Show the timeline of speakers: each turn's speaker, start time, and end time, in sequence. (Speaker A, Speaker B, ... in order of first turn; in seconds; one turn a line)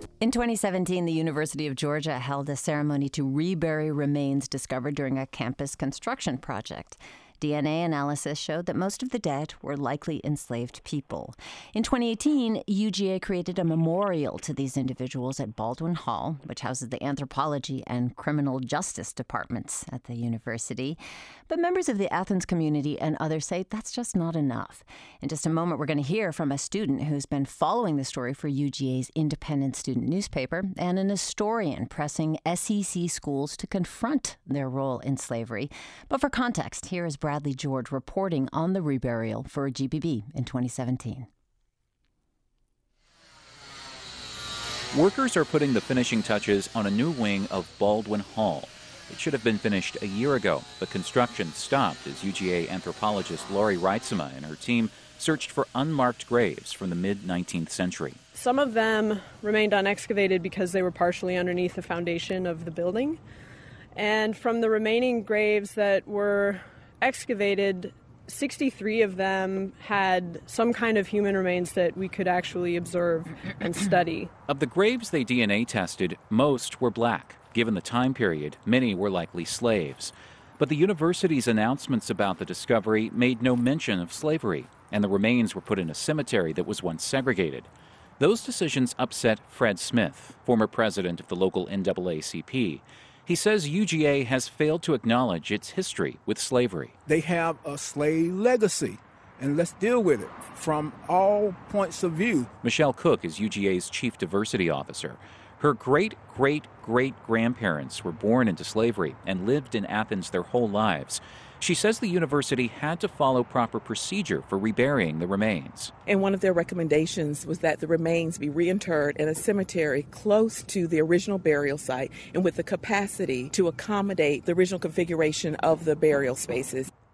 Speaker A: 0.2-41.3
Speaker B: 44.9-58.2
Speaker C: 58.3-63.2
Speaker C: 63.9-74.3
Speaker B: 74.5-97.0
Speaker D: 97.1-102.5
Speaker B: 102.6-115.9
Speaker E: 116.1-126.9